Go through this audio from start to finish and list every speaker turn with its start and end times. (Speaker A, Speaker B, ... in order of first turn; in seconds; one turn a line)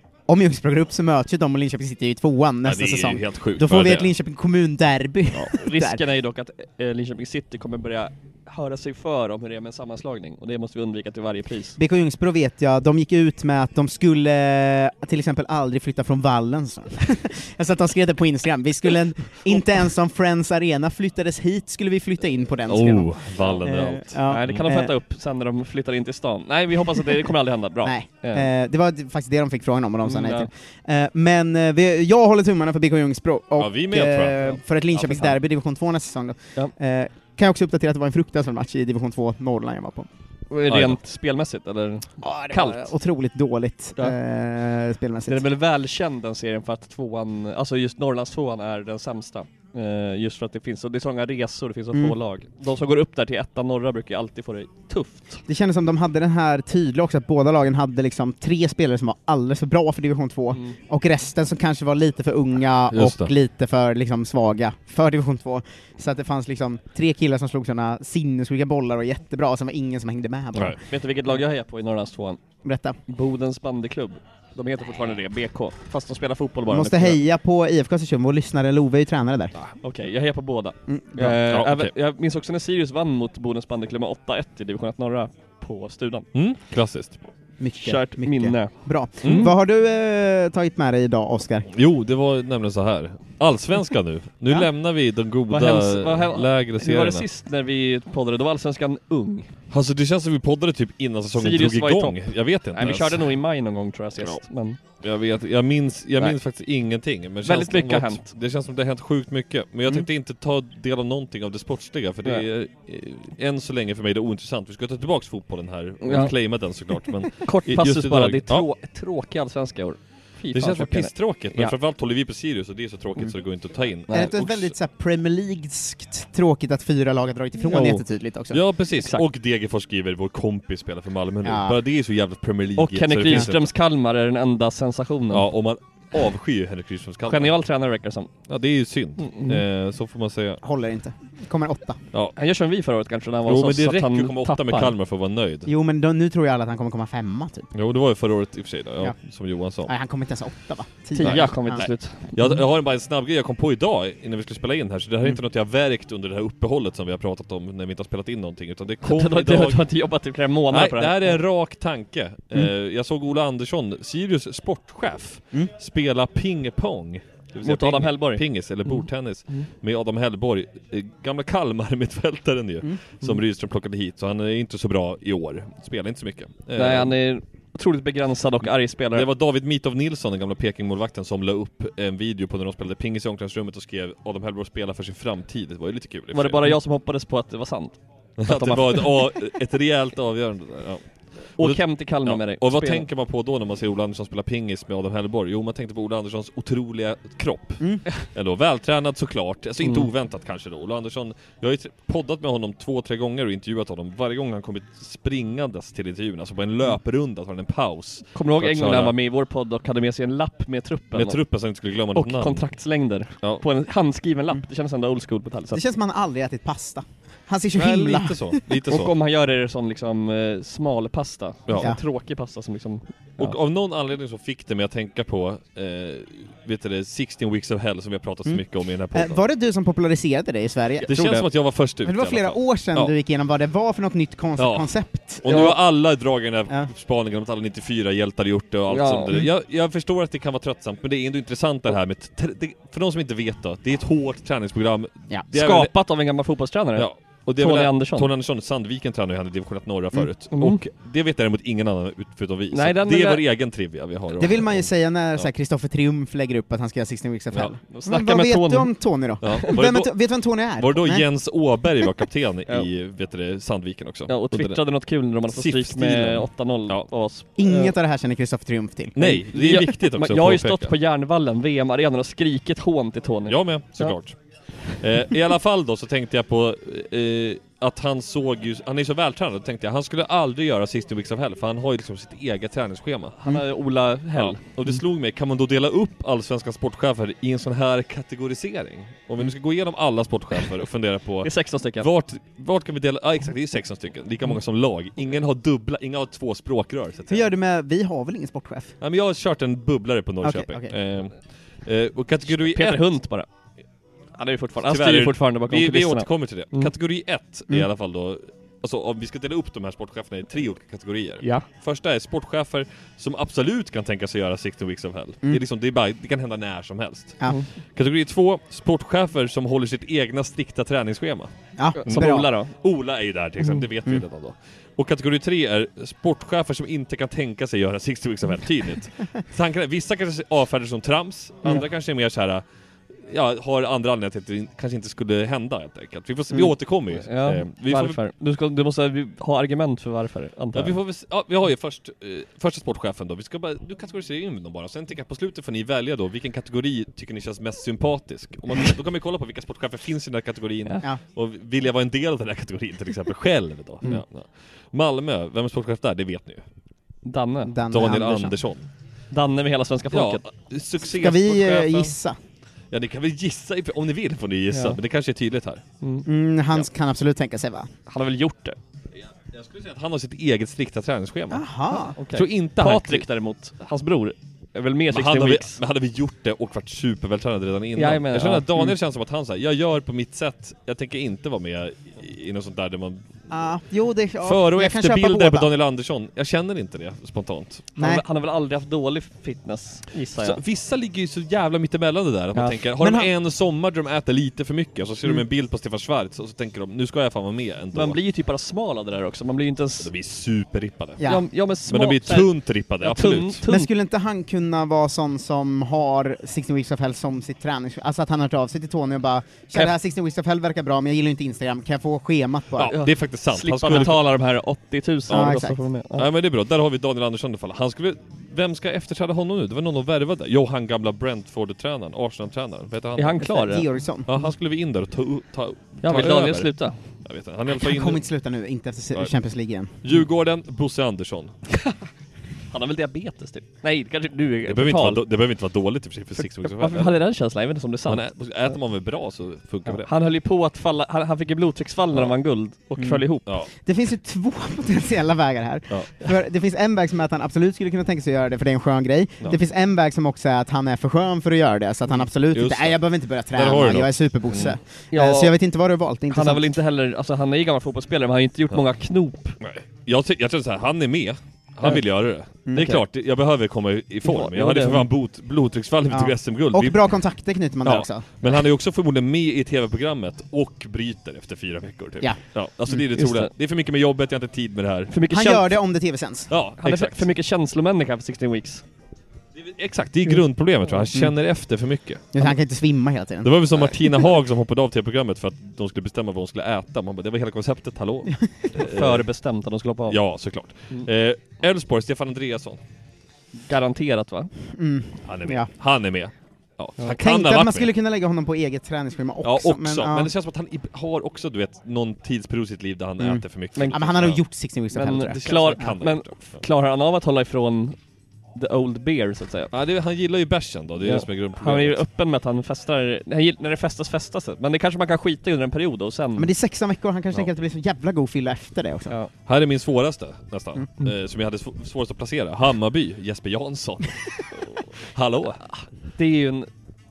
Speaker A: 0.3-6.0
Speaker B: 2.6-4.1
Speaker C: 5.4-11.8
Speaker A: 11.8-24.9
Speaker B: 22.7-24.6
Speaker C: 24.3-28.5
Speaker A: 27.8-40.1
Speaker C: 30.0-30.5
Speaker B: 33.6-35.3
Speaker C: 40.5-42.9
Speaker B: 40.7-41.0
Speaker A: 42.2-45.4
Speaker C: 45.3-55.4
Speaker A: 55.5-70.8
Speaker B: 62.9-63.3
Speaker C: 70.9-72.4
Speaker A: 72.6-73.0
Speaker C: 73.1-77.2
Speaker A: 76.7-79.5
Speaker C: 79.8-86.3
Speaker A: 80.9-81.4
Speaker B: 81.5-81.9
Speaker B: 86.3-87.2
Speaker A: 87.6-91.7
Speaker C: 87.8-89.5
Speaker B: 89.2-89.5
Speaker B: 91.7-97.3
Speaker C: 95.5-99.5
Speaker B: 99.7-103.3
Speaker C: 101.4-104.8
Speaker B: 105.0-118.7
Speaker C: 107.5-108.3
Speaker C: 116.0-116.3
Speaker C: 117.4-121.7
Speaker B: 120.5-124.7
Speaker A: 124.1-128.6
Speaker C: 127.7-128.0
Speaker B: 128.5-133.7
Speaker C: 129.0-129.2
Speaker A: 131.4-131.8
Speaker C: 132.8-135.5
Speaker B: 135.3-137.5
Speaker C: 137.3-138.3
Speaker B: 138.5-140.6
Speaker C: 139.2-139.6
Speaker A: 140.6-142.0
Speaker C: 142.4-144.9
Speaker B: 143.5-145.7
Speaker A: 145.7-147.7
Speaker B: 147.7-149.9
Speaker A: 149.8-151.8
Speaker C: 151.1-152.6
Speaker B: 151.2-159.9
Speaker C: 159.0-161.4
Speaker B: 160.7-177.1
Speaker C: 167.6-169.7
Speaker C: 176.8-179.3
Speaker B: 179.1-186.8
Speaker C: 186.3-189.2
Speaker B: 188.4-191.0
Speaker B: 191.6-209.2
Speaker C: 191.6-193.1
Speaker C: 199.8-200.1
Speaker C: 208.3-211.4
Speaker B: 211.1-212.7
Speaker C: 212.2-215.8
Speaker A: 215.7-218.6
Speaker B: 217.8-219.1
Speaker C: 218.9-223.6
Speaker B: 223.4-229.4
Speaker A: 229.1-231.1
Speaker C: 231.0-231.4
Speaker B: 231.1-233.1
Speaker A: 232.0-235.8
Speaker B: 234.6-234.9
Speaker B: 235.4-245.9
Speaker C: 235.5-235.8
Speaker C: 238.9-239.4
Speaker C: 245.5-248.3
Speaker B: 247.0-255.5
Speaker C: 250.5-250.8
Speaker C: 252.7-253.4
Speaker A: 254.4-261.3
Speaker C: 257.9-258.9
Speaker B: 259.4-260.2
Speaker B: 260.8-264.8
Speaker C: 264.3-267.9
Speaker B: 265.5-267.1
Speaker A: 267.6-269.2
Speaker B: 269.2-270.9
Speaker C: 269.2-274.2
Speaker B: 273.5-283.4
Speaker C: 283.4-284.6
Speaker B: 284.4-297.5
Speaker C: 291.4-292.1
Speaker A: 297.3-298.9
Speaker B: 299.0-303.1
Speaker A: 300.4-300.9
Speaker C: 302.5-303.5
Speaker C: 304.4-306.9
Speaker B: 304.9-317.4
Speaker B: 318.0-321.5
Speaker A: 321.8-322.5
Speaker C: 322.0-322.7
Speaker B: 322.1-332.6
Speaker B: 333.3-338.2
Speaker C: 337.2-340.9
Speaker B: 340.7-356.6
Speaker C: 357.3-357.8
Speaker A: 357.7-358.6
Speaker B: 357.9-358.9
Speaker C: 359.3-360.4
Speaker B: 360.1-362.1
Speaker A: 361.0-362.4
Speaker B: 362.9-365.8
Speaker C: 364.7-365.0
Speaker A: 366.2-367.9
Speaker C: 368.1-368.8
Speaker B: 369.4-371.7
Speaker A: 371.5-372.2
Speaker C: 372.1-375.8
Speaker B: 372.3-373.3
Speaker B: 375.1-383.3
Speaker C: 378.0-378.9
Speaker A: 383.5-385.7
Speaker B: 384.4-387.9
Speaker A: 388.0-388.2
Speaker C: 388.0-390.6
Speaker B: 390.4-398.2
Speaker A: 393.0-393.3
Speaker C: 397.9-400.1
Speaker B: 400.0-401.2
Speaker A: 401.2-401.4
Speaker C: 401.2-402.5
Speaker B: 401.9-403.6
Speaker C: 403.0-403.9
Speaker A: 403.7-412.9
Speaker B: 412.8-414.2
Speaker C: 412.9-416.3
Speaker A: 415.3-415.8
Speaker B: 416.2-423.5
Speaker C: 423.2-423.9
Speaker A: 423.4-424.3
Speaker B: 424.3-426.7
Speaker C: 426.0-427.0
Speaker B: 427.2-428.2
Speaker A: 427.7-429.9
Speaker B: 430.0-431.5
Speaker C: 432.7-435.2
Speaker B: 434.7-437.2
Speaker C: 436.4-438.2
Speaker B: 438.1-440.1
Speaker C: 439.9-443.4
Speaker A: 443.0-443.2
Speaker A: 443.8-456.7
Speaker B: 445.9-446.2
Speaker B: 452.5-453.0
Speaker B: 453.5-454.8
Speaker C: 455.1-455.5
Speaker C: 456.3-459.6
Speaker B: 459.6-467.0
Speaker A: 462.7-463.0
Speaker C: 462.8-463.0
Speaker C: 464.2-465.1
Speaker A: 466.1-468.3
Speaker B: 467.9-475.1
Speaker C: 472.9-473.5
Speaker C: 475.1-475.7
Speaker A: 475.3-476.5
Speaker B: 476.5-477.3
Speaker C: 476.8-478.8
Speaker B: 479.6-482.6
Speaker A: 482.3-484.2
Speaker B: 483.4-489.3
Speaker C: 488.8-490.2
Speaker B: 490.1-492.8
Speaker C: 493.7-494.5
Speaker A: 494.8-495.7
Speaker B: 495.2-497.9
Speaker A: 497.2-500.3
Speaker B: 499.4-504.4
Speaker A: 503.2-505.9
Speaker C: 503.8-504.1
Speaker C: 504.9-508.0
Speaker B: 505.3-506.6
Speaker C: 508.6-509.7
Speaker B: 509.7-512.0
Speaker C: 511.0-516.5
Speaker A: 516.4-519.1
Speaker B: 519.5-524.5
Speaker B: 525.1-525.7
Speaker C: 526.2-526.7